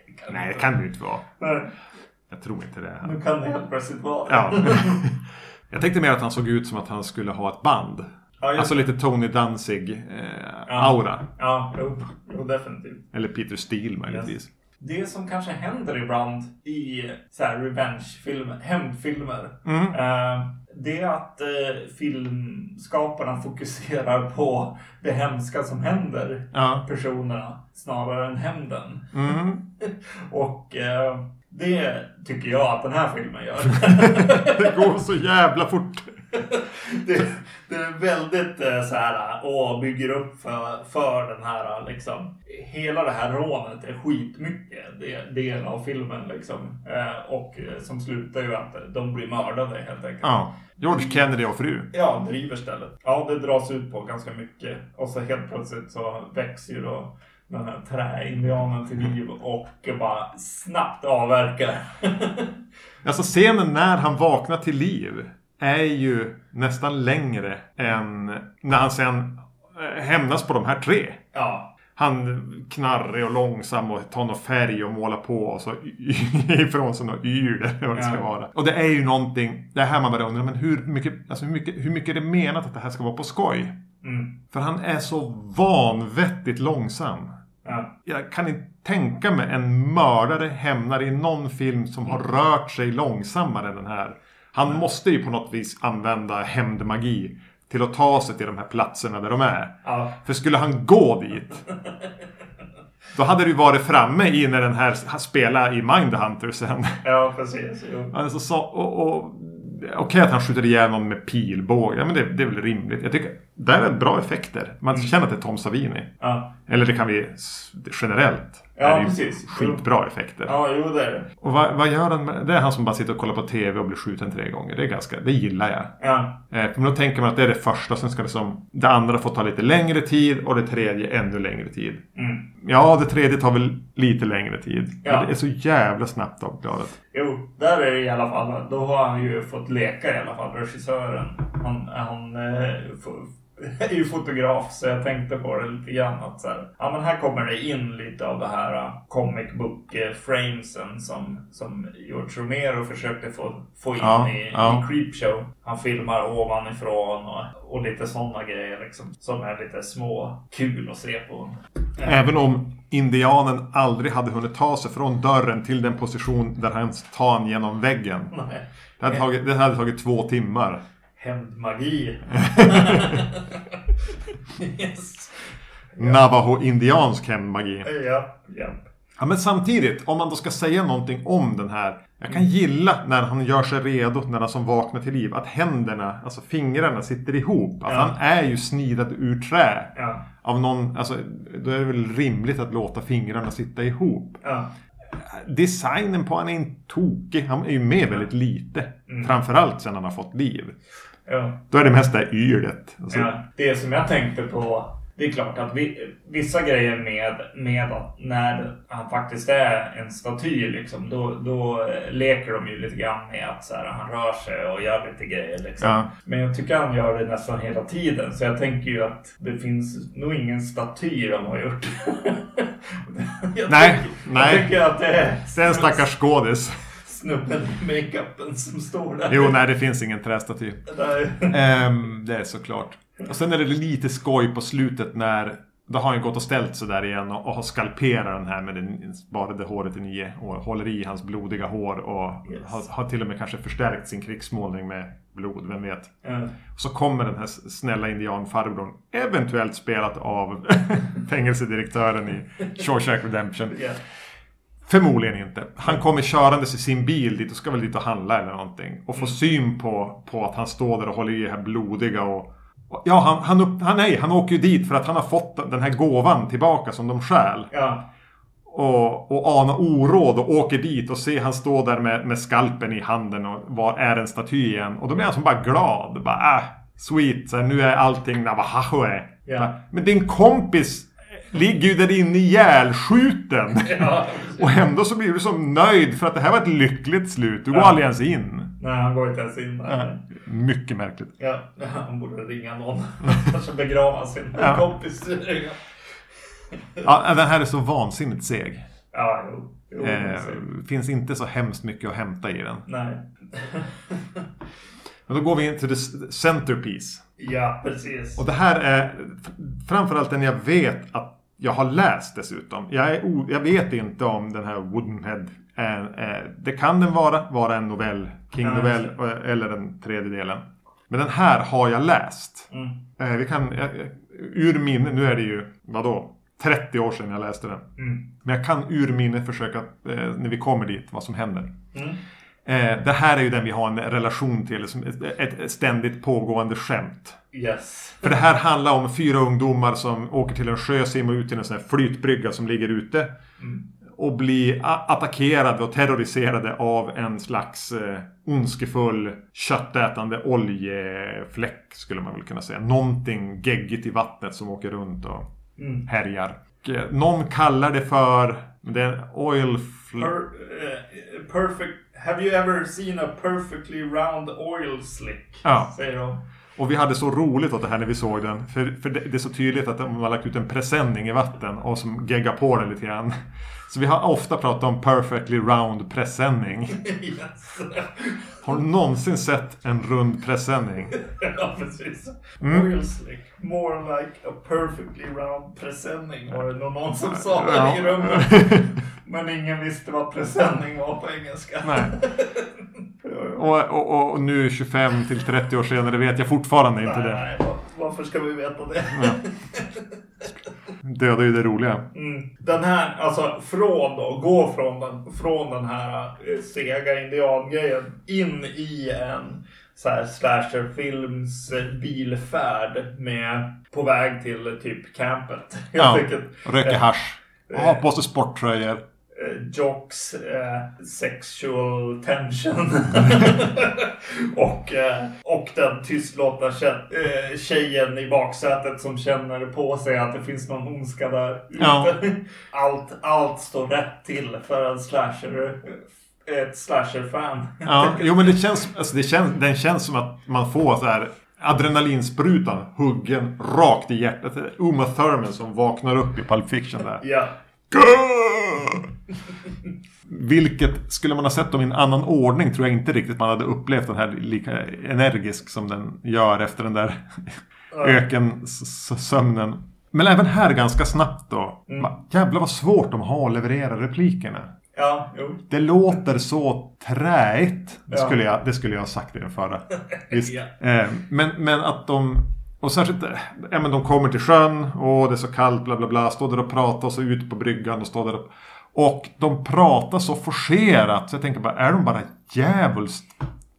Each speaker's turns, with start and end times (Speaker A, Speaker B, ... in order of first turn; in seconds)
Speaker A: 0.2-0.7, 1.4-1.7, 3.0-5.0, 8.4-8.8, 10.7-13.0, 14.1-34.9, 36.3-50.3, 50.9-51.2, 51.9-62.5, 71.3-71.7, 77.9-78.2, 84.0-84.3, 87.6-87.9, 99.8-100.1, 107.0-108.1, 116.2-116.5, 118.8-119.8, 120.5-121.3, 126.0-126.3, 132.2-132.4, 135.0-135.3, 137.1-162.2, 168.3-169.2, 171.2-176.2, 177.8-178.8, 187.8-188.1, 189.9-190.2, 194.4-194.7, 201.3-201.6, 203.1-226.0, 227.0-229.6, 230.9-231.6, 246.2-246.5, 253.7-254.0, 267.7-268.0, 279.4-279.7, 283.8-284.8, 287.7-288.0, 288.8-290.2, 291.4-295.8, 299.1-300.6, 302.9-304.4, 307.4-308.4, 318.6-319.1, 322.7-323.0, 328.0-328.2, 331.9-332.2, 337.5-338.3, 343.6-343.8, 355.8-356.1, 360.2-366.4, 376.9-378.6, 381.1-392.7, 393.2-393.6, 397.0-400.1, 402.1-417.0, 417.7-418.0, 419.3-438.5, 447.2-447.5, 457.9-458.2, 464.9-465.6, 468.1-468.4, 470.1-470.7
Speaker B: 0.3-1.2, 2.3-3.2, 4.3-5.2, 5.7-11.3, 13.1-14.5, 19.6-20.0, 26.5-26.8, 29.1-29.6, 34.0-36.2, 50.2-51.9, 63.0-71.2, 72.0-83.8, 84.5-87.3, 88.0-101.6, 103.1-107.0, 108.1-116.1, 116.6-120.5, 121.4-125.9, 126.5-132.0, 132.6-137.0, 154.0-154.8, 162.0-168.3, 169.0-170.8, 172.4-173.2, 176.0-177.9, 179.2-194.4, 195.2-200.8, 201.7-203.3, 215.8-216.1, 223.7-224.7, 225.5-226.8, 229.3-230.9, 231.5-246.1, 246.7-253.8, 254.9-267.7, 268.7-288.7, 289.9-291.3, 294.6-294.8, 297.0-298.8, 300.0-302.9, 305.3-307.2, 308.4-327.9, 328.4-331.7, 332.6-337.4, 338.2-343.3, 344.1-355.4, 356.1-360.3, 365.6-365.9, 366.8-377.0, 378.6-381.1, 382.6-382.9, 387.2-388.9, 391.8-392.1, 393.5-397.4, 399.1-399.4, 401.0-402.1, 416.0-419.0, 431.8-432.2, 437.8-447.2, 447.9-449.1, 450.2-464.7, 465.7-483.4